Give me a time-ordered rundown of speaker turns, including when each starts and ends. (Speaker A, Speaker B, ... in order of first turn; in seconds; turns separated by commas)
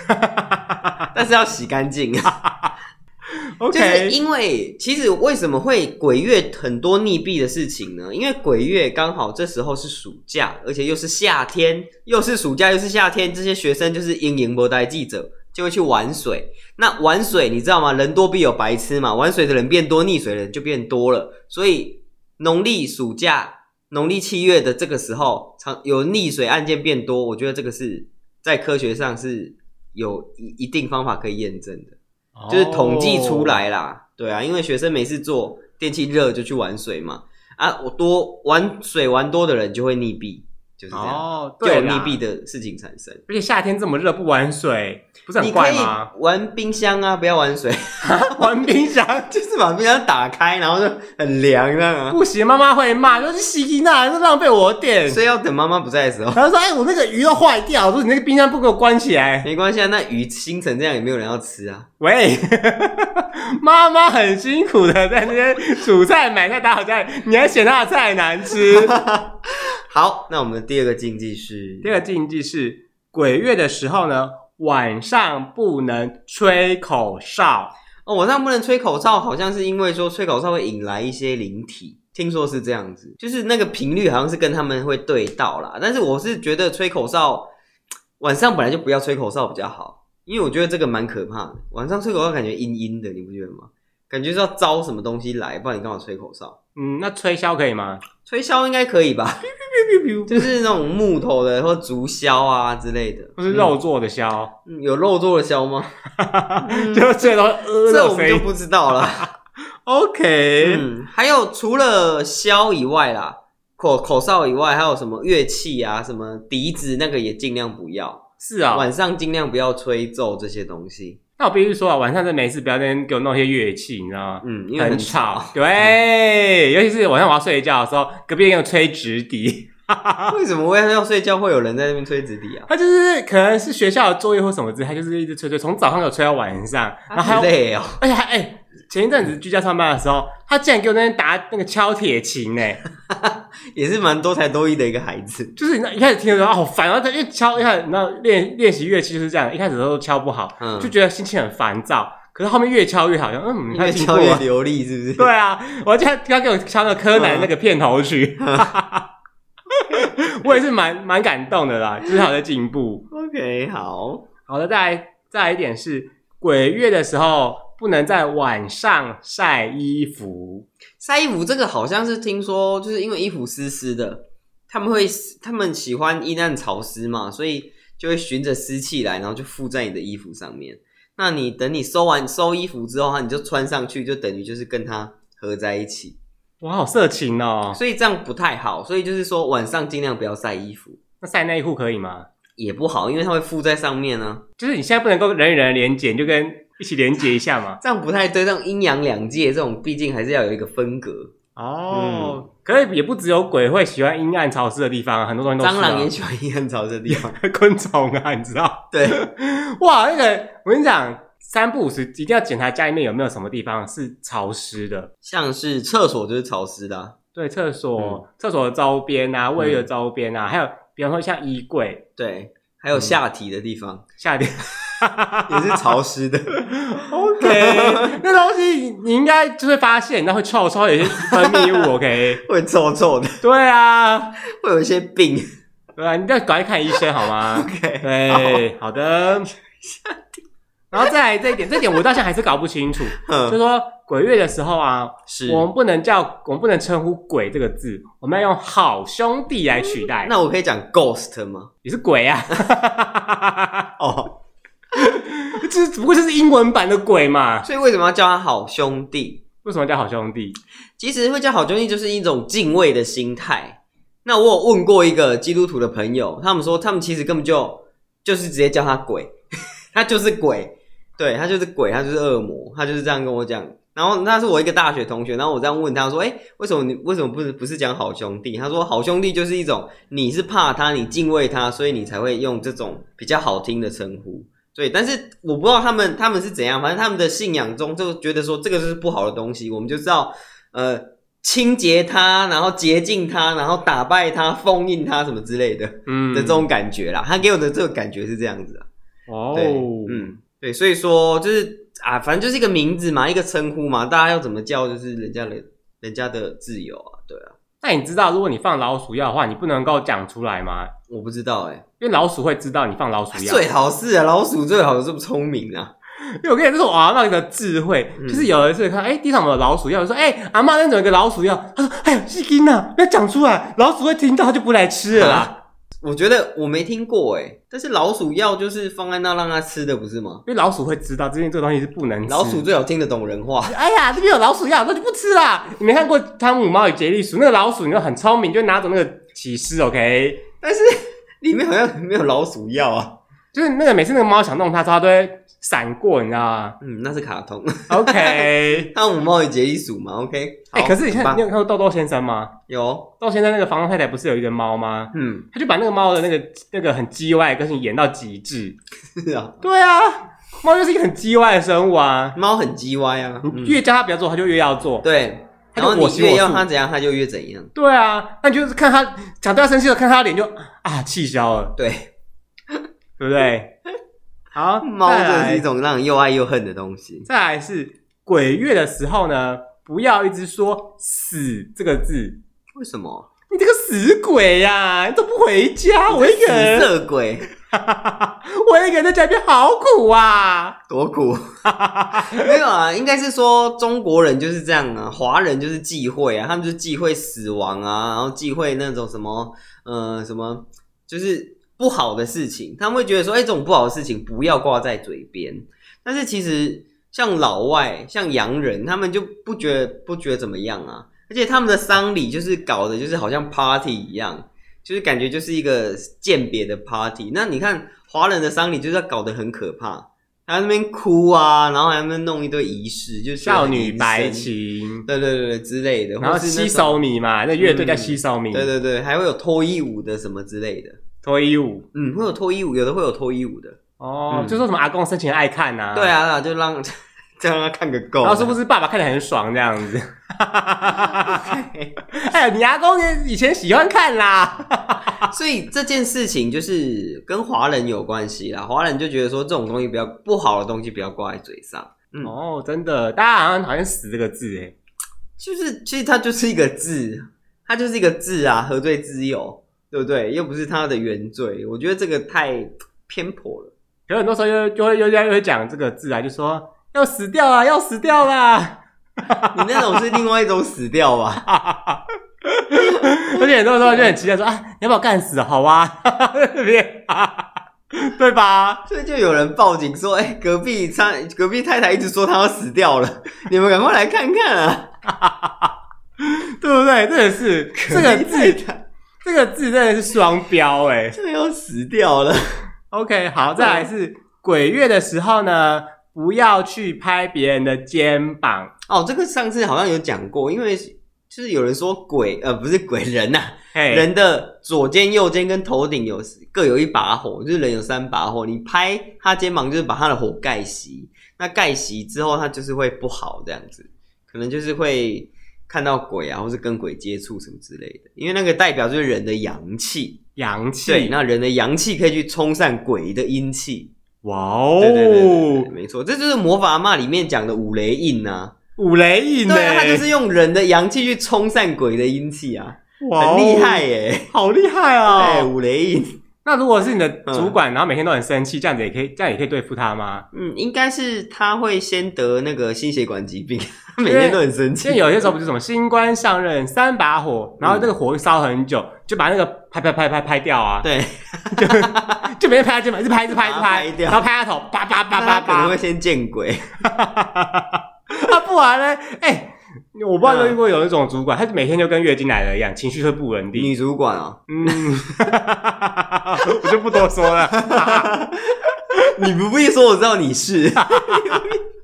Speaker A: 0.1-1.0, Speaker B: 1.1-2.3, Speaker A: 3.6-4.1, Speaker B: 3.7-31.9, Speaker A: 32.4-33.6, Speaker B: 32.5-43.2, Speaker A: 40.9-42.2, Speaker A: 43.3-46.1, Speaker B: 45.4-52.2, Speaker A: 48.0-49.3, Speaker A: 52.1-55.2, Speaker B: 55.1-56.4, Speaker A: 56.3-59.5, Speaker B: 59.4-61.9, Speaker A: 62.0-69.0, Speaker B: 68.6-71.9, Speaker A: 71.8-77.7, Speaker B: 78.0-87.5, Speaker B: 88.2-96.5, Speaker A: 96.8-98.0, Speaker B: 98.2-99.4, Speaker A: 99.5-100.5, Speaker B: 100.3-103.7, Speaker A: 103.4-104.5, Speaker B: 104.7-105.9, Speaker A: 106.2-108.5, Speaker B: 106.6-109.3, Speaker A: 109.0-109.3, Speaker A: 109.8-110.8, Speaker B: 110.6-121.2, Speaker A: 118.4-118.9, Speaker A: 121.4-130.3, Speaker B: 124.4-125.9, Speaker B: 130.3-132.7, Speaker A: 132.7-142.8, Speaker B: 137.1-138.0, Speaker B: 143.1-145.5, Speaker A: 145.6-154.4, Speaker B: 150.6-150.9, Speaker B: 153.7-155.3, Speaker A: 155.2-159.1, Speaker B: 157.1-157.5, Speaker B: 158.4-158.7, Speaker A: 159.7-163.1, Speaker B: 163.1-164.2, Speaker A: 164.5-170.7, Speaker B: 171.0-186.2, Speaker A: 186.6-187.8, Speaker B: 187.7-191.0, Speaker A: 191.2-192.3, Speaker B: 192.6-194.4, Speaker A: 194.6-197.8, Speaker B: 197.8-201.3, Speaker A: 201.6-206.1, Speaker B: 201.9-202.4, Speaker B: 205.6-207.3, Speaker A: 207.1-215.1, Speaker B: 208.9-209.2, Speaker B: 215.2-217.2, Speaker A: 217.3-222.0, Speaker B: 219.6-219.8, Speaker B: 222.2-224.0, Speaker A: 224.2-225.8, Speaker B: 225.5-226.6, Speaker A: 226.7-232.4, Speaker B: 227.4-228.2, Speaker B: 231.1-231.9, Speaker B: 232.4-233.4, Speaker A: 233.4-234.3, Speaker B: 234.5-235.4, Speaker A: 235.9-239.5, Speaker B: 237.3-238.6, Speaker B: 239.8-240.4, Speaker A: 240.9-250.3, Speaker B: 243.1-243.6, Speaker B: 245.3-245.7, Speaker B: 250.0-251.7, Speaker A: 251.8-253.8, Speaker B: 254.0-254.3, Speaker A: 254.9-257.7, Speaker B: 257.6-259.4, Speaker A: 259.6-260.6, Speaker B: 261.0-269.3, Speaker B: 269.9-298.9, Speaker A: 296.1-296.7, Speaker A: 299.3-300.3, Speaker B: 299.5-307.5, Speaker A: 307.8-310.9, Speaker B: 311.1-311.8, Speaker A: 312.0-313.6, Speaker B: 313.3-315.9, Speaker A: 316.4-325.5, Speaker B: 318.2-318.5, Speaker B: 325.1-330.4, Speaker A: 330.4-332.6, Speaker B: 332.3-333.7, Speaker A: 333.6-340.4, Speaker B: 340.6-343.2, Speaker A: 343.5-346.8, Speaker B: 346.8-351.4, Speaker A: 347.9-348.9, Speaker A: 350.7-352.5, Speaker B: 352.7-353.1, Speaker A: 353.2-358.8, Speaker B: 355.1-355.5, Speaker B: 359.1-359.6, Speaker A: 359.6-362.4, Speaker B: 362.4-363.8, Speaker A: 363.4-365.0, Speaker B: 365.0-367.7, Speaker A: 365.7-366.6, Speaker A: 367.7-371.7, Speaker B: 371.8-372.1, Speaker A: 373.2-373.7, Speaker A: 374.5-375.6, Speaker B: 374.8-377.3, Speaker A: 377.3-382.4, Speaker B: 382.7-383.3, Speaker A: 383.5-386.9, Speaker B: 386.1-387.4, Speaker A: 387.7-390.8, Speaker B: 390.9-391.4, Speaker A: 391.6-392.5, Speaker B: 392.2-424.5, Speaker A: 423.4-425.1, Speaker B: 425.1-427.0, Speaker A: 426.2-428.7, Speaker B: 427.6-431.0, Speaker A: 431.2-431.9, Speaker B: 431.9-433.8, Speaker A: 434.0-436.1, Speaker B: 434.3-434.6, Speaker B: 435.9-438.6, Speaker A: 438.2-441.5, Speaker B: 440.9-442.0, Speaker A: 442.1-445.3, Speaker B: 445.2-452.3, Speaker A: 452.2-454.7, Speaker B: 455.4-463.7, Speaker A: 464.1-470.0, Speaker B: 469.5-471.4, Speaker A: 471.4-478.8, Speaker B: 472.8-474.2, Speaker B: 478.9-484.9, Speaker A: 485.1-485.7, Speaker A: 486.2-488.6, Speaker B: 487.8-488.8, Speaker A: 489.2-491.2, Speaker B: 491.1-492.6, Speaker A: 492.9-498.7, Speaker B: 493.6-493.9, Speaker B: 498.9-520.2, Speaker A: 503.7-504.1, Speaker A: 520.4-521.1, Speaker B: 520.8-523.9, Speaker A: 524.2-525.7, Speaker B: 524.8-528.5, Speaker A: 528.8-530.0, Speaker B: 529.5-534.3, Speaker A: 533.0-535.5, Speaker B: 535.1-536.1, Speaker A: 536.4-540.2, Speaker B: 537.2-537.5, Speaker B: 540.3-545.3, Speaker A: 544.0-550.9, Speaker B: 547.6-547.9, Speaker B: 550.8-552.2, Speaker A: 551.5-555.8, Speaker B: 553.3-554.2, Speaker B: 555.1-556.8, Speaker A: 556.8-563.7, Speaker B: 560.2-560.6, Speaker B: 563.5-564.9, Speaker A: 564.5-568.1, Speaker B: 567.5-571.6, Speaker A: 570.8-571.4